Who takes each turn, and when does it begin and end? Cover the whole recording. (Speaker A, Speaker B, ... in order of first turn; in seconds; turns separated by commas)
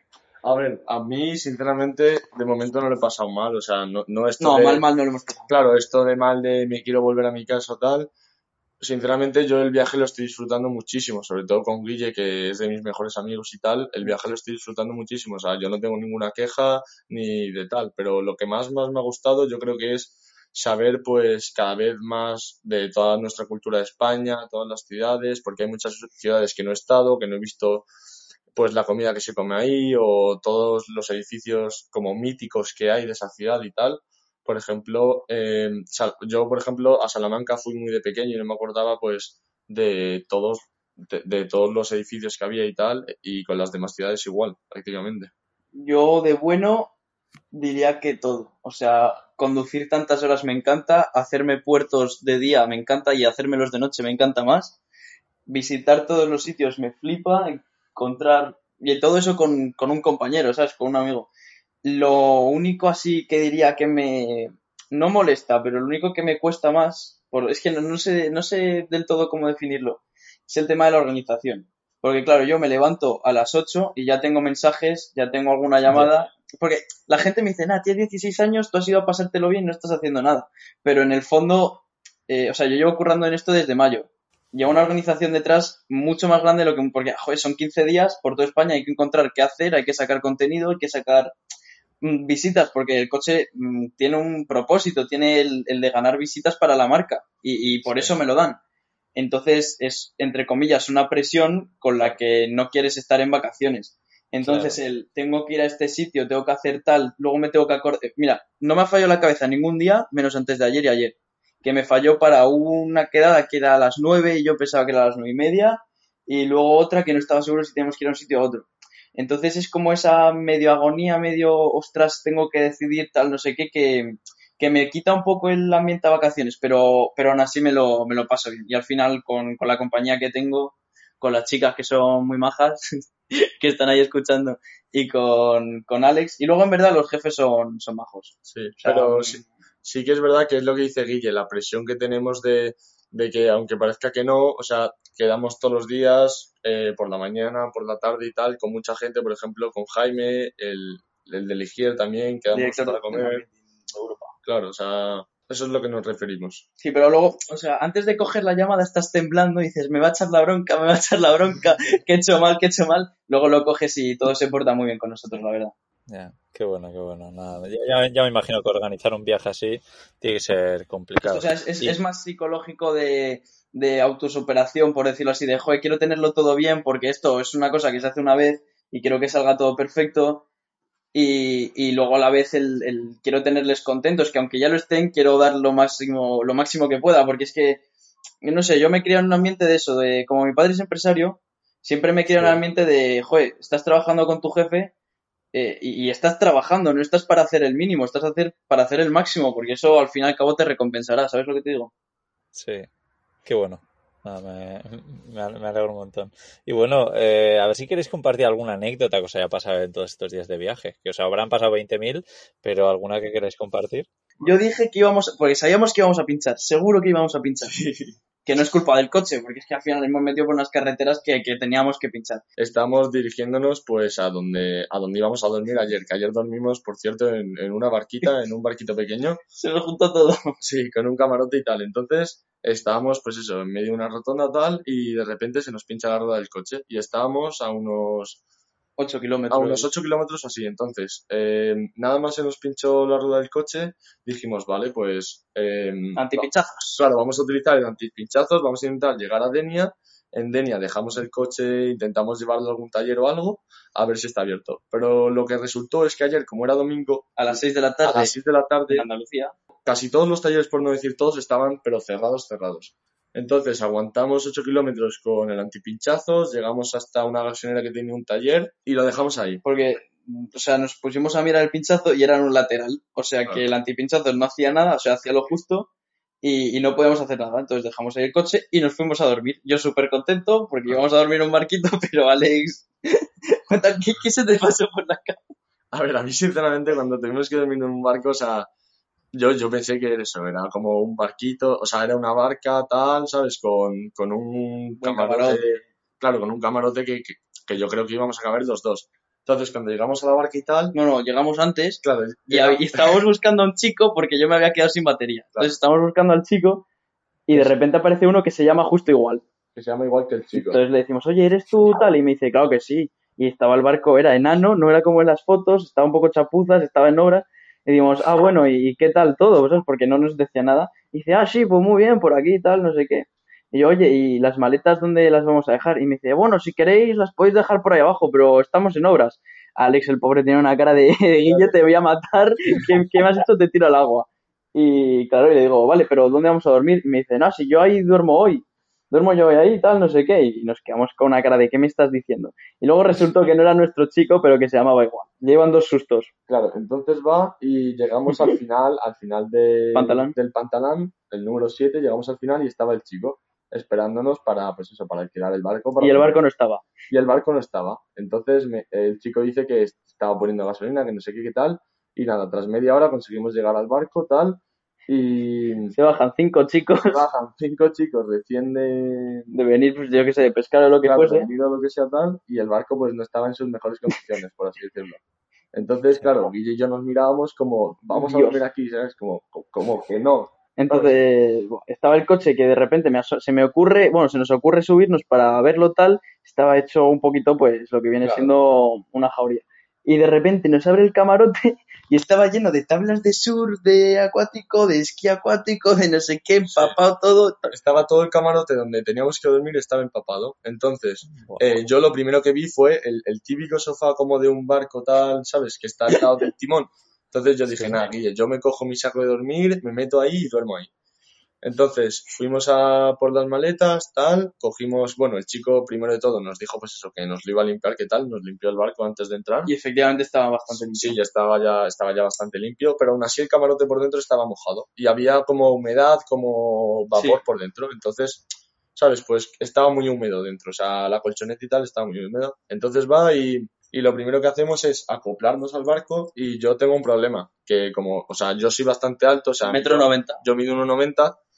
Speaker A: 0.4-4.8, Speaker B: 4.4-5.5, Speaker A: 5.5-8.1, Speaker A: 8.8-27.9, Speaker A: 28.5-45.3, Speaker B: 45.8-46.9, Speaker B: 47.5-54.8, Speaker B: 55.5-61.3, Speaker B: 61.8-91.3, Speaker B: 92.0-98.6, Speaker C: 97.8-98.1, Speaker B: 99.1-139.4, Speaker C: 104.4-104.8, Speaker A: 138.4-153.4, Speaker B: 152.5-154.3, Speaker A: 154.4-156.6, Speaker B: 156.8-165.7, Speaker C: 166.1-172.0, Speaker B: 171.2-180.4, Speaker B: 181.1-187.8, Speaker B: 188.4-194.9, Speaker B: 195.5-201.9, Speaker C: 202.5-202.9, Speaker C: 203.4-214.1, Speaker B: 214.4-217.7, Speaker A: 217.6-218.2, Speaker B: 218.4-222.4, Speaker A: 222.6-229.4, Speaker B: 229.6-230.5, Speaker A: 230.6-238.4, Speaker B: 239.0-239.9, Speaker A: 239.5-259.1, Speaker B: 246.2-247.0, Speaker B: 257.4-258.3, Speaker B: 258.9-259.5, Speaker A: 259.9-269.6, Speaker B: 269.6-275.9, Speaker B: 276.4-285.4, Speaker A: 285.9-288.7, Speaker A: 289.3-300.9, Speaker B: 295.0-295.7, Speaker B: 300.9-306.8, Speaker A: 302.0-303.2, Speaker B: 307.5-309.4, Speaker A: 309.8-310.8, Speaker B: 310.5-346.3, Speaker A: 331.5-331.8, Speaker A: 346.5-356.4, Speaker B: 349.9-350.3, Speaker B: 356.0-356.9, Speaker A: 357.1-365.9, Speaker B: 365.9-367.1, Speaker A: 367.0-369.5, Speaker B: 369.5-371.5, Speaker A: 371.0-375.2, Speaker A: 375.7-381.1, Speaker B: 378.1-378.6, Speaker B: 380.8-397.7, Speaker A: 388.2-388.5, Speaker A: 396.7-396.9, Speaker A: 397.7-410.9, Speaker C: 401.3-401.6, Speaker C: 407.7-408.1, Speaker A: 411.6-419.7, Speaker B: 419.6-421.2, Speaker A: 420.7-441.4, Speaker B: 427.1-427.4, Speaker B: 439.7-440.4